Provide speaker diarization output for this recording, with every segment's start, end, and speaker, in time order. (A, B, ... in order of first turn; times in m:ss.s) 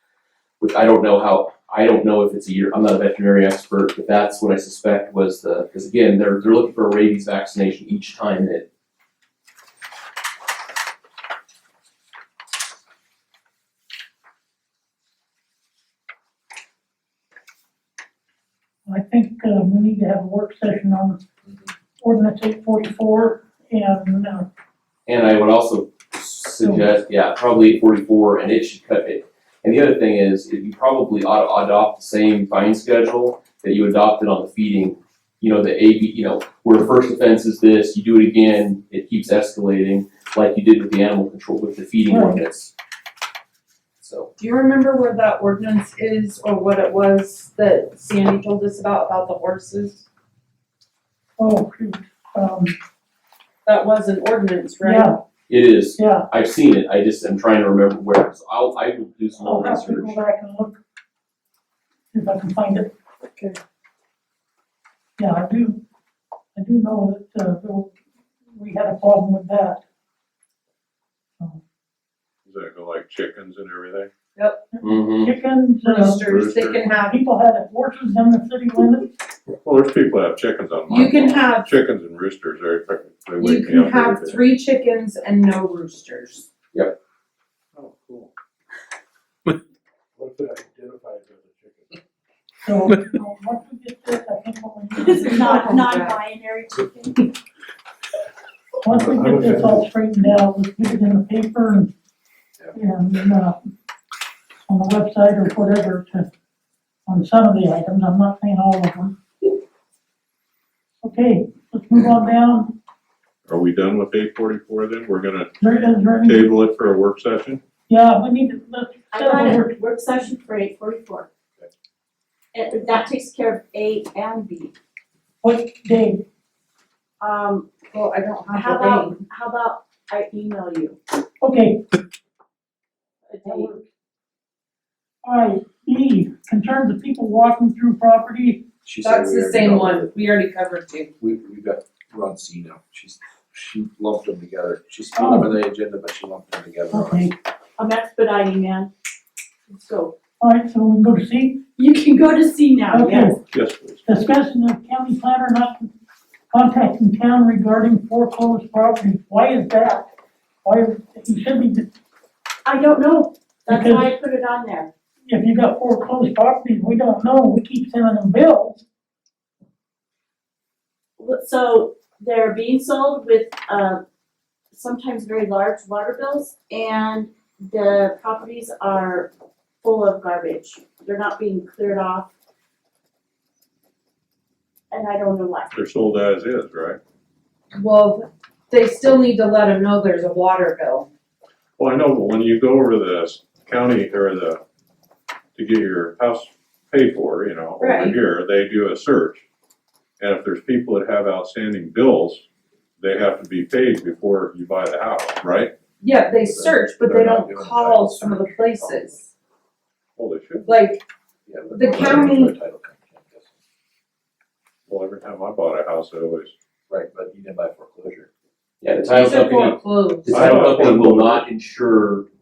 0:00.6-0:08.6 A
0:18.9-0:21.2 B
0:22.0-0:24.5 B
0:25.1-0:42.7 A
0:42.1-0:42.4 B
0:44.0-0:44.3 A
0:44.4-0:50.0 C
0:51.4-0:52.7 B
0:53.6-0:55.1 C
0:54.8-0:55.2 B
0:55.5-1:00.2 A
0:56.0-0:56.3 B
0:59.4-1:00.8 B
1:02.1-1:02.9 B
1:05.2-1:05.8 B
1:06.5-1:07.9 B
1:08.5-1:09.8 B
1:12.4-1:14.1 D
1:14.4-1:14.6 C
1:14.7-1:16.2 B
1:14.8-1:15.3 A
1:15.8-1:17.1 C
1:16.2-1:16.9 D
1:16.9-1:19.1 B
1:19.5-1:24.4 D
1:20.9-1:21.7 C
1:23.4-1:26.5 C
1:27.7-1:28.3 D
1:30.2-1:31.8 D
1:32.6-1:36.1 B
1:34.9-1:37.3 E
1:35.4-1:36.2 C
1:38.8-1:41.9 B
1:39.0-1:39.7 D
1:42.7-1:43.6 B
1:44.7-1:46.3 B
1:47.1-1:49.2 B
1:51.0-1:52.7 B
1:53.4-1:55.5 D
1:55.6-1:56.5 B
1:56.2-1:57.6 D
1:57.9-1:59.7 B
1:59.1-2:01.3 E
2:02.5-2:04.7 E
2:05.4-2:06.2 B
2:07.2-2:07.8 E
2:07.9-2:09.2 C
2:08.5-2:11.0 E
2:11.4-2:11.8 B
2:13.2-2:13.7 E
2:13.4-2:13.8 B
2:15.2-2:18.6 B
2:18.8-2:20.1 F
2:19.0-2:21.1 C
2:21.2-2:27.3 F
2:25.1-2:25.5 B
2:26.9-2:27.3 B
2:27.8-2:28.9 E
2:29.7-2:30.2 E
2:30.4-2:31.6 B
2:31.8-2:33.4 E
2:32.9-2:33.4 B
2:33.5-2:34.0 D
2:34.0-2:35.9 B
2:36.5-2:40.1 B
2:40.6-2:41.9 B
2:42.6-2:44.9 E
2:43.7-2:44.2 B
2:45.2-2:48.8 B
2:51.2-2:54.0 E
2:54.7-2:59.3 E
2:59.8-3:02.3 E
3:04.9-3:05.7 E
3:05.7-3:07.0 D
3:07.7-3:11.1 C
3:11.8-3:14.6 D
3:15.5-3:19.4 D
3:20.2-3:22.4 D
3:23.0-3:25.7 D
3:26.0-3:29.2 C
3:26.4-3:29.2 F
3:30.2-3:30.7 D
3:30.6-3:31.0 C
3:31.5-3:33.4 F
3:31.7-3:32.5 C
3:34.9-3:36.5 D
3:36.9-3:38.3 F
3:38.8-3:42.3 A
3:39.1-3:40.4 C
3:40.3-3:41.4 D